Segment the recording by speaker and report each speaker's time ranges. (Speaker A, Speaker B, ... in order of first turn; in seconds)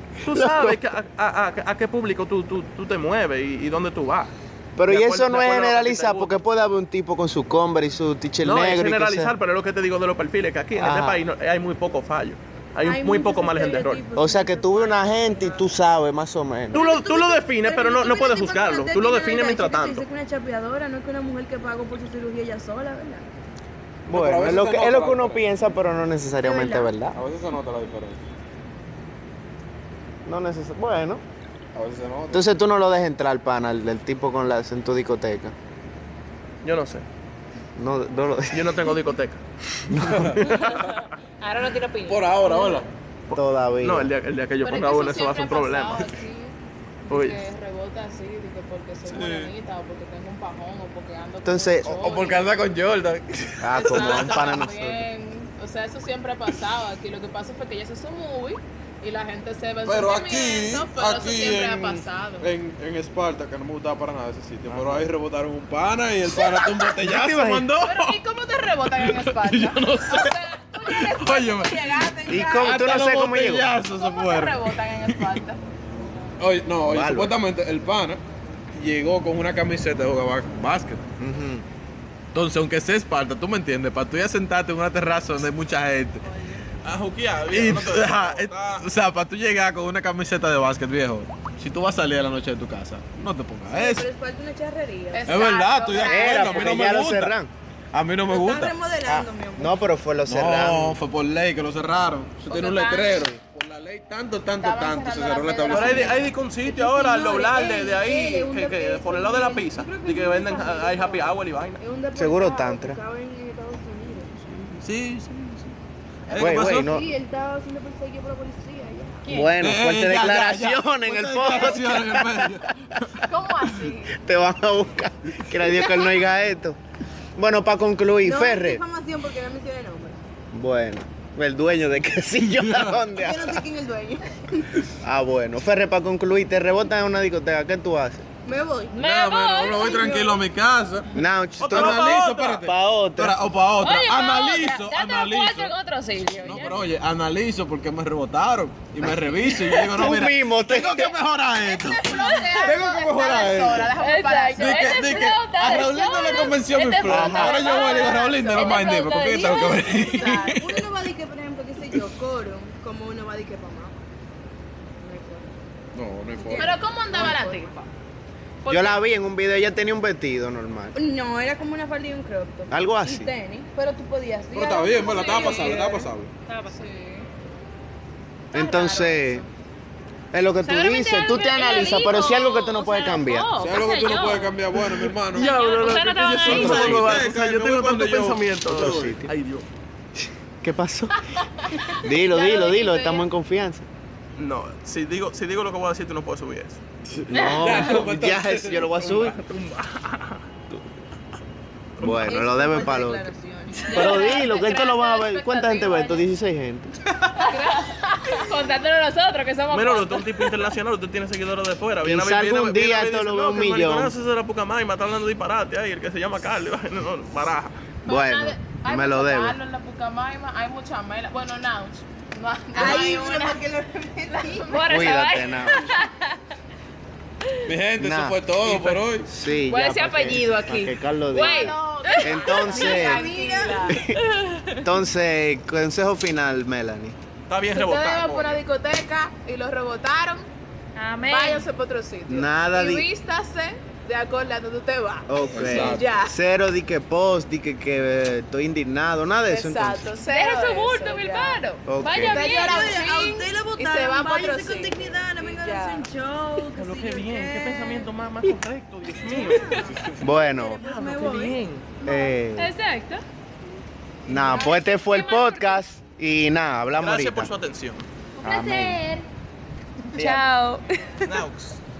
Speaker A: 0.2-4.3, 4.8-6.3, 8.4-14.0, 16.7-20.0, 36.6-37.0, 38.5-39.4, 40.4-40.7, 43.3-46.1, 47.1-47.4, 86.8-88.8, 105.7-111.8, 114.8-115.5, 116.3-116.8, 141.6-142.7, 185.3-189.7, 194.4-196.8, 199.1-200.4, 202.0-202.3, 209.7-217.8, 228.6-229.0, 237.5-238.6, 256.6-260.1, 260.8-262.0, 266.9-268.1, 271.2-271.8
Speaker B: 0.3-0.8, 4.8-9.3, 10.7-11.2, 14.2-16.9, 24.1-27.2, 30.2-31.2, 32.3-35.5, 37.8-39.0, 39.9-40.3, 43.3-44.1, 51.4-51.9, 53.6-55.0, 64.7-65.0, 67.0-67.7, 72.3-73.7, 76.8-77.3, 81.2-81.6, 96.0-97.5, 99.0-101.0, 112.1-113.0, 116.3-117.1, 119.3-122.8, 124.2-126.8, 127.3-128.8, 130.5-133.6, 135.0-138.2, 141.1-143.5, 149.0-151.2, 157.0-157.7, 168.7-170.9, 172.7-173.3, 178.5-179.4, 180.3-183.5, 188.7-189.3, 190.2-191.2, 192.0-193.8, 197.3-199.4, 202.0-203.3, 203.8-206.9, 212.0-214.1, 218.1-219.6, 224.9-225.9, 228.0-228.4, 229.2-233.3, 233.9-234.2, 234.8-237.2, 242.3-243.1, 245.3-250.1, 251.8-252.6, 260.1-260.8, 262.0-262.7, 264.3-267.5, 268.4-269.0, 270.2-270.4
Speaker C: 12.8-15.7, 16.7-23.3, 26.4-27.0, 72.2-72.8, 93.7-95.4, 98.2-99.8, 106.6-114.3, 116.3-119.3, 128.2-130.2, 133.2-134.7, 138.4-139.0, 139.8-140.4, 159.1-164.0, 165.0-165.5, 166.3-167.6, 170.9-175.4, 191.8-193.2, 202.1-204.4, 222.7-224.8, 232.7-234.0, 252.2-258.1, 259.1-262.3
Speaker D: 24.1-25.5, 27.1-28.2, 31.7-32.5, 39.9-40.8, 42.0-42.9, 49.0-49.5, 51.8-54.6, 59.8-68.1, 69.0-75.4, 76.4-78.2, 78.7-81.0, 82.3-86.2, 87.5-94.1, 95.2-97.3, 97.9-98.8, 100.2-106.3, 114.5-115.3, 116.3-117.0, 119.6-123.1, 132.6-133.0, 139.0-153.9, 154.5-160.9, 165.9-166.8, 174.5-176.3, 183.6-185.5, 186.4-189.1, 197.1-199.3, 227.7-229.3, 245.5-246.1
Speaker E: 40.5-42.8, 102.5-103.3, 138.9-140.2, 143.8-146.9, 152.2-152.8, 153.9-156.9, 158.5-160.1, 175.5-176.8, 178.5-179.4, 180.6-187.2, 197.3-198.1, 224.7-226.3, 229.7-233.1, 234.1-234.8, 240.9-241.7, 250.2-252.9, 264.3-265.8, 268.4-269.2, 270.1-270.8
Speaker F: 44.6-52.5, 53.8-62.5, 66.3-66.8, 67.8-72.9, 73.8-75.6, 95.1-96.8, 104.6-106.3, 119.2-119.5, 123.2-124.1, 151.6-155.2, 156.4-160.6, 166.5-167.9, 168.6-169.0, 174.9-176.1, 176.7-177.3, 203.7-206.3, 207.3-210.6, 218.0-223.6, 224.3-225.5, 231.3-234.0, 237.7-240.4, 241.3-246.4, 249.4-256.1, 262.6-263.2